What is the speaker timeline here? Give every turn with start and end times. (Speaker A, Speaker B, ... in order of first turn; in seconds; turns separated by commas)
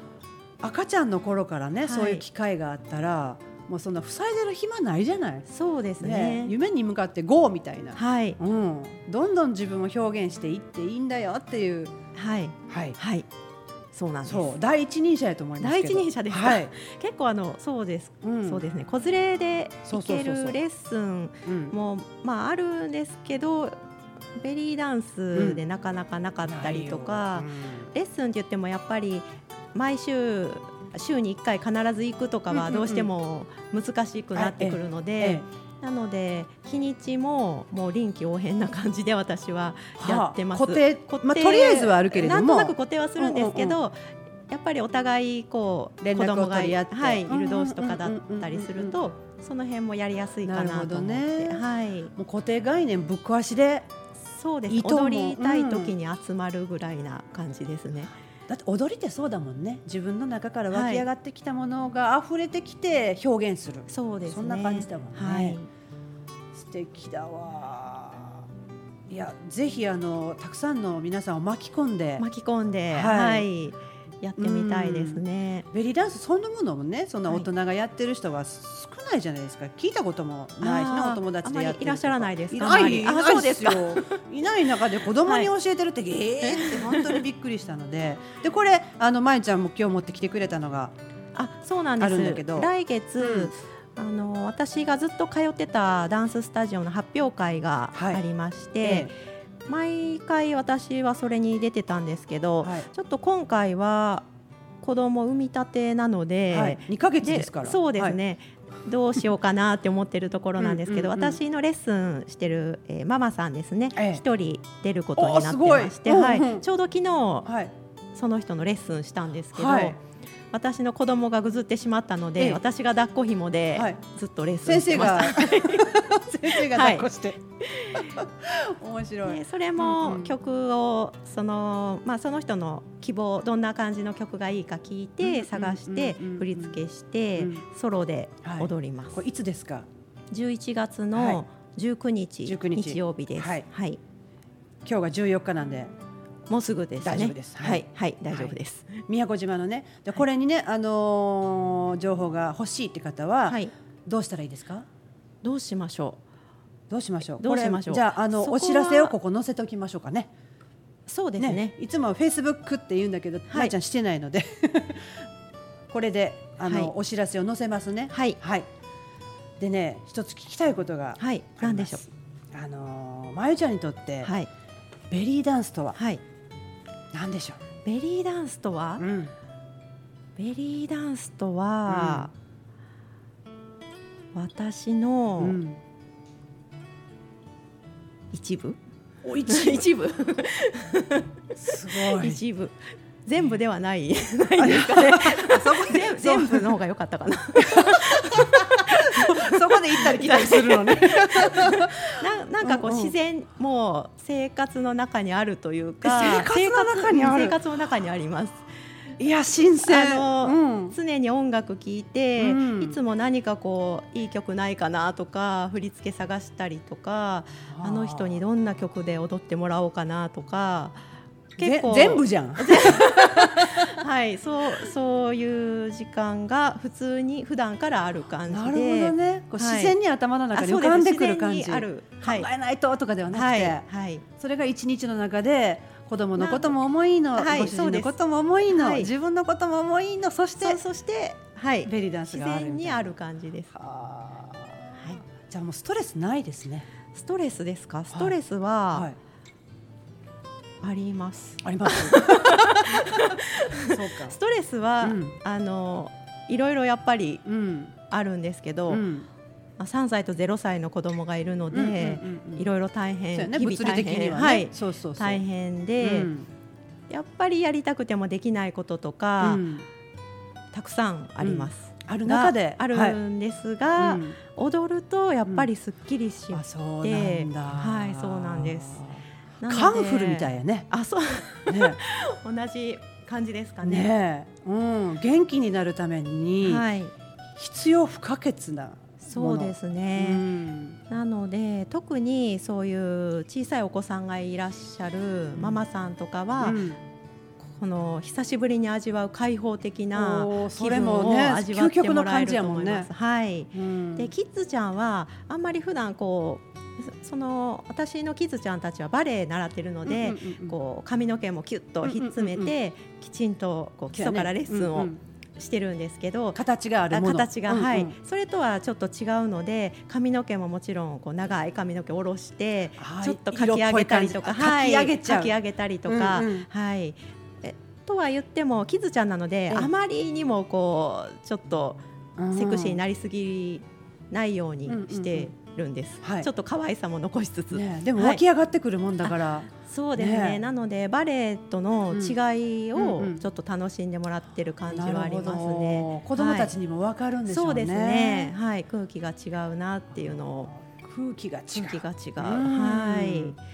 Speaker A: 0.6-5.5, Speaker B: 1.8-2.2, Speaker B: 5.5-6.5, Speaker A: 6.0-11.9, Speaker B: 8.0-8.4, Speaker B: 12.1-13.2, Speaker A: 12.7-12.9, Speaker B: 13.9-14.6, Speaker A: 14.2-16.7, Speaker B: 15.6-23.8, Speaker A: 18.2-18.6, Speaker A: 19.9-20.6, Speaker A: 21.5-21.7, Speaker B: 24.4-44.0, Speaker A: 25.3-25.6, Speaker A: 26.4-27.9, Speaker A: 32.5-33.1, Speaker A: 34.3-35.4, Speaker A: 40.0-43.8, Speaker B: 44.5-52.1, Speaker A: 46.0-49.0, Speaker A: 50.4-51.6, Speaker A: 52.1-53.9, Speaker B: 54.2-58.1, Speaker A: 54.7-55.9, Speaker A: 58.5-65.6, Speaker B: 60.7-61.0, Speaker B: 63.9-65.7, Speaker A: 66.5-68.5, Speaker A: 69.1-72.2, Speaker B: 72.2-75.7, Speaker A: 72.9-73.5, Speaker A: 74.4-90.9, Speaker B: 80.6-84.2, Speaker B: 85.2-85.5, Speaker B: 86.4-87.2, Speaker B: 91.3-99.1, Speaker A: 92.0-93.5, Speaker A: 97.9-98.2, Speaker A: 98.8-99.1, Speaker B: 99.7-104.3, Speaker A: 102.6-102.9, Speaker B: 104.8-117.5, Speaker A: 106.5-108.2, Speaker A: 110.6-111.4, Speaker A: 113.9-114.2, Speaker A: 115.2-116.6, Speaker A: 117.5-117.7, Speaker B: 118.1-120.0, Speaker A: 119.5-119.9, Speaker B: 120.5-126.0, Speaker A: 123.7-124.0, Speaker A: 124.6-127.4, Speaker B: 126.5-127.1, Speaker B: 127.6-128.2, Speaker A: 127.9-130.3, Speaker B: 129.2-139.2, Speaker A: 135.2-136.8, Speaker A: 137.4-137.6, Speaker A: 138.4-139.9, Speaker B: 140.3-144.0, Speaker A: 141.1-141.4, Speaker A: 142.4-143.6, Speaker A: 144.8-145.9, Speaker B: 146.5-149.0, Speaker A: 147.0-148.6, Speaker A: 149.1-154.9, Speaker B: 155.4-156.2, Speaker A: 156.9-160.3, Speaker B: 157.4-159.1, Speaker B: 161.1-161.7, Speaker A: 161.4-165.2, Speaker A: 165.9-168.7, Speaker B: 166.6-166.9, Speaker B: 168.1-168.4, Speaker A: 169.6-174.3, Speaker B: 171.2-172.1, Speaker B: 174.2-174.5, Speaker A: 175.1-176.0, Speaker B: 175.9-176.2, Speaker A: 177.1-177.6, Speaker B: 177.8-179.0, Speaker A: 179.0-179.3, Speaker B: 180.4-182.3, Speaker A: 181.9-182.3, Speaker B: 184.3-185.6, Speaker A: 185.4-185.8, Speaker B: 188.3-188.8, Speaker A: 189.2-189.8, Speaker B: 189.4-191.3, Speaker A: 191.6-192.4, Speaker B: 191.9-208.7, Speaker A: 194.6-196.7, Speaker A: 197.6-203.1, Speaker A: 206.0-207.6, Speaker A: 209.2-210.9, Speaker B: 209.8-221.0, Speaker A: 212.4-213.0, Speaker A: 217.7-218.4, Speaker B: 221.6-229.9, Speaker A: 221.6-223.9, Speaker A: 228.5-233.8, Speaker B: 230.5-232.5, Speaker B: 233.3-234.2, Speaker A: 234.4-240.8, Speaker B: 236.4-236.8, Speaker B: 237.3-238.2, Speaker B: 238.7-239.1, Speaker B: 240.6-243.7, Speaker A: 241.8-243.1, Speaker A: 243.7-246.9, Speaker B: 247.1-249.1, Speaker B: 250.8-257.4, Speaker A: 251.6-254.3, Speaker A: 255.0-255.3, Speaker A: 257.4-257.9, Speaker B: 258.0-259.1, Speaker A: 258.9-259.3, Speaker B: 259.8-266.3, Speaker A: 261.7-262.7, Speaker A: 263.3-265.4, Speaker A: 266.0-266.5, Speaker B: 267.1-269.6, Speaker A: 269.4-269.9, Speaker B: 270.7-279.1, Speaker A: 271.4-273.2, Speaker A: 274.0-274.4, Speaker A: 276.5-280.9, Speaker B: 279.6-284.1, Speaker A: 281.7-282.0, Speaker A: 283.8-286.8, Speaker B: 286.6-287.1, Speaker A: 287.6-291.0, Speaker B: 289.2-290.5, Speaker B: 291.1-296.8, Speaker A: 295.6-295.8, Speaker A: 296.6-297.0, Speaker B: 297.6-316.6, Speaker A: 300.1-303.1, Speaker A: 303.7-304.3, Speaker A: 310.0-310.8, Speaker A: 312.0-312.7, Speaker A: 314.1-315.2, Speaker A: 316.5-318.1, Speaker B: 317.1-332.0, Speaker A: 323.0-325.5, Speaker A: 326.1-326.7, Speaker A: 332.4-333.0, Speaker B: 332.5-338.4, Speaker A: 334.9-335.5, Speaker A: 336.2-336.5, Speaker A: 337.7-340.6, Speaker B: 339.2-346.7, Speaker A: 342.1-342.4, Speaker A: 342.9-343.4, Speaker A: 344.9-348.5, Speaker B: 347.5-350.7, Speaker A: 350.8-353.6, Speaker B: 351.7-353.6